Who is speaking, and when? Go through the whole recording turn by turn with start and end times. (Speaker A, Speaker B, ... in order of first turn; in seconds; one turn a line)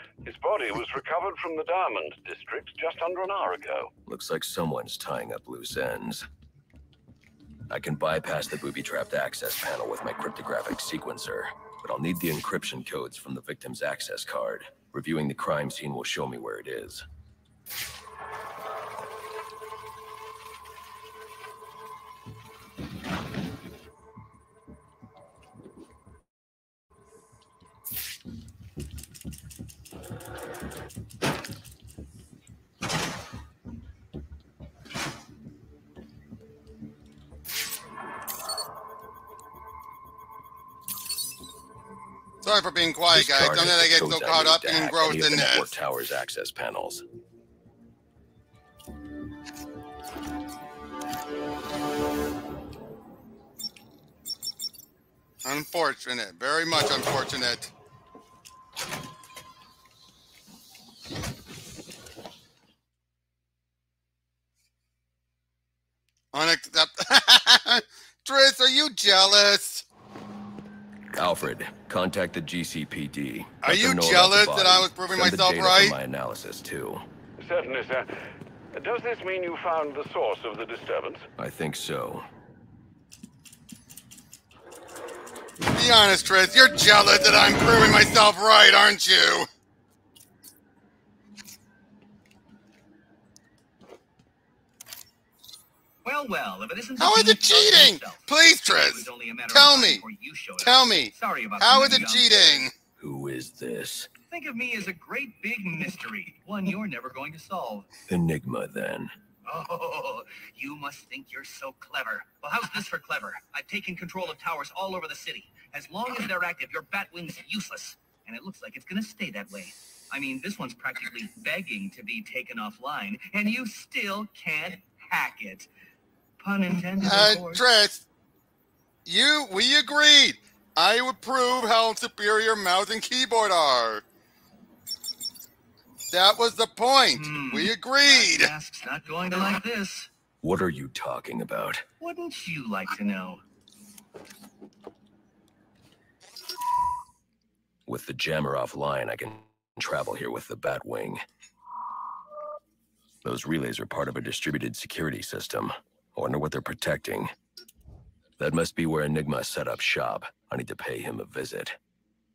Speaker A: 0.2-3.9
Speaker B: 4.1-6.2
Speaker B: 7.7-17.0
Speaker C: 42.4-45.7
Speaker B: 43.1-47.0
Speaker C: 55.4-57.7
Speaker C: 66.3-69.8
Speaker B: 71.1-77.0
Speaker C: 73.6-76.0
Speaker A: 77.4-78.1
Speaker A: 78.7-81.3
Speaker B: 81.4-82.3
Speaker C: 85.7-89.5
Speaker D: 96.0-102.7
Speaker C: 97.0-100.0
Speaker C: 100.6-102.7
Speaker B: 103.0-104.1
Speaker D: 104.3-107.9
Speaker B: 108.1-109.1
Speaker D: 109.4-125.7
Speaker D: 126.4-127.7
Speaker C: 127.0-128.0
Speaker C: 129.1-134.0
Speaker C: 136.1-138.5
Speaker D: 137.1-140.1
Speaker B: 140.4-141.8
Speaker D: 142.0-143.4
Speaker B: 147.9-151.2
Speaker B: 153.2-157.3
Speaker B: 158.4-161.8